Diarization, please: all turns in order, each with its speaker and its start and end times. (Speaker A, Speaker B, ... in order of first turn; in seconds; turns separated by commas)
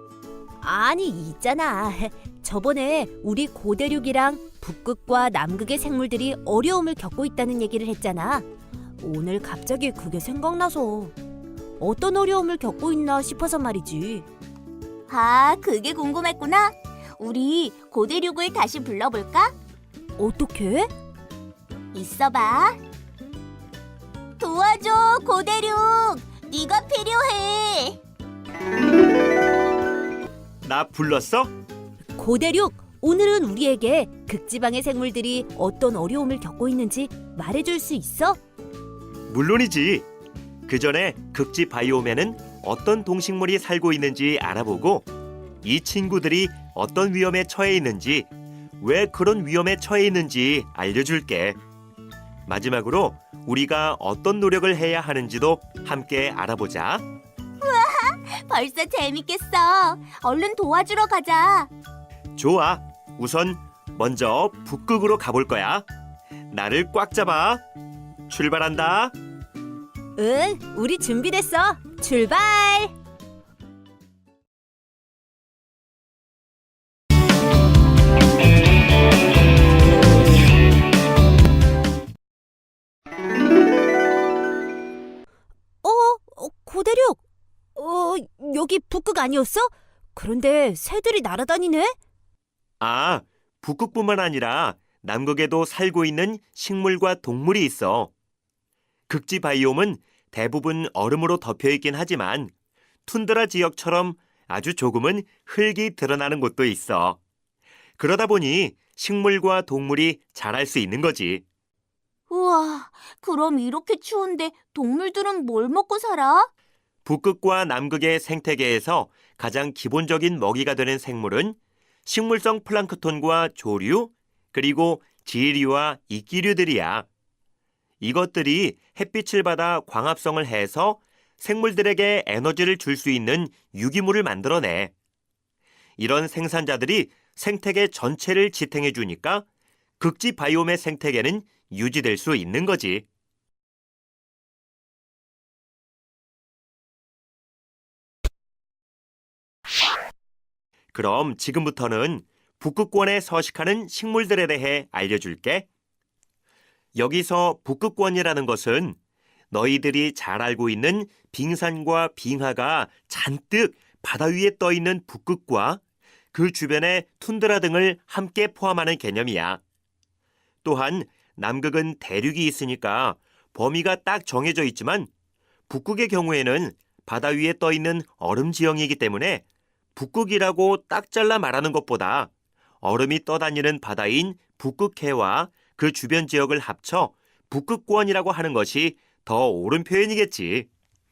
Speaker A: 0.6-8.5, Speaker A: 9.0-11.1, Speaker A: 11.8-14.3, Speaker B: 15.1-19.5, Speaker A: 20.2-20.9, Speaker B: 21.9-22.8, Speaker B: 24.4-28.0, Speaker C: 30.6-31.5, Speaker A: 32.1-38.4, Speaker C: 39.3-40.0, Speaker C: 40.7-45.1, Speaker C: 45.6-48.3, Speaker C: 48.8-51.6, Speaker C: 52.5-57.0, Speaker B: 57.6-61.7, Speaker C: 62.4-65.9, Speaker C: 66.5-67.6, Speaker C: 68.3-69.1, Speaker A: 70.2-72.9, Speaker A: 85.8-87.2, Speaker A: 87.8-91.9, Speaker C: 92.8-98.1, Speaker C: 99.1-102.5, Speaker C: 103.1-107.2, Speaker C: 108.0-111.4, Speaker B: 112.3-116.5, Speaker C: 117.0-127.0, Speaker C: 128.0-134.9, Speaker C: 136.0-139.4, Speaker C: 140.0-143.0, Speaker C: 150.9-155.7, Speaker C: 156.9-159.0, Speaker C: 159.5-165.8, Speaker C: 166.3-169.6, Speaker C: 170.6-175.1, Speaker C: 175.7-179.4, Speaker C: 179.9-182.3, Speaker C: 182.8-190.7